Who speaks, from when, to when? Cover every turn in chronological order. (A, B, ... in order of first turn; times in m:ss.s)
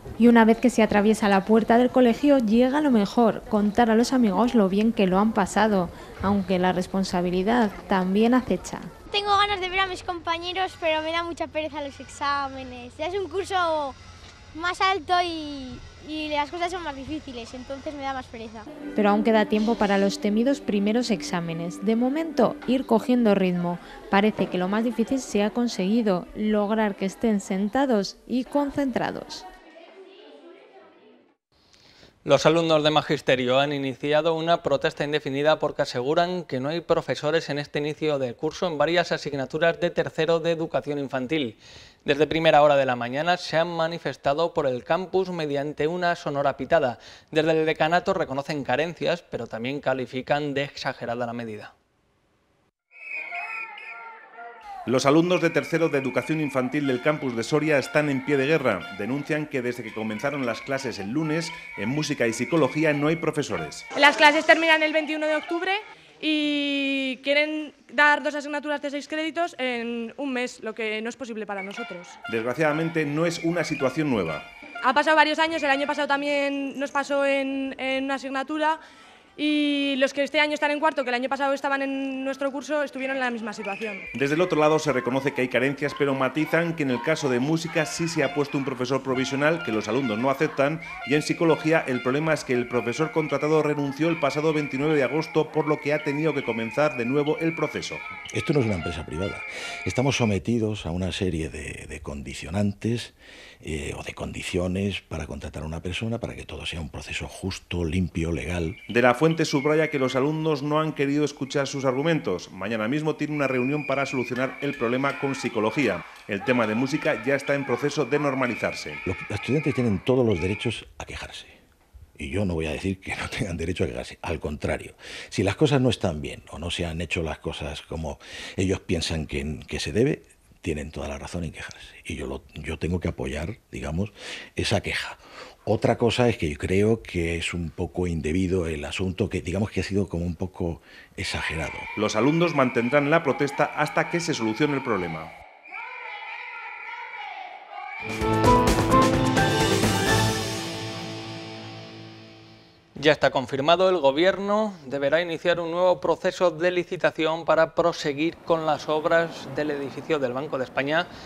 0:00.2-0:08.9 A
0:09.1-0:14.0 B
0:14.5-0:18.7 B
0:18.9-0:29.4 A
0:32.2-0:51.7 C
0:54.9-1:03.8 D
1:03.9-1:12.2 E
1:12.3-1:14.5 D
1:14.8-1:18.8 E
1:19.4-1:24.0 E
1:24.1-1:38.0 D
1:38.3-1:48.8 F
1:48.9-1:59.0 D
1:59.0-2:01.6 F
2:02.2-2:21.9 F
2:22.0-2:25.3 D
2:33.0-2:41.1 C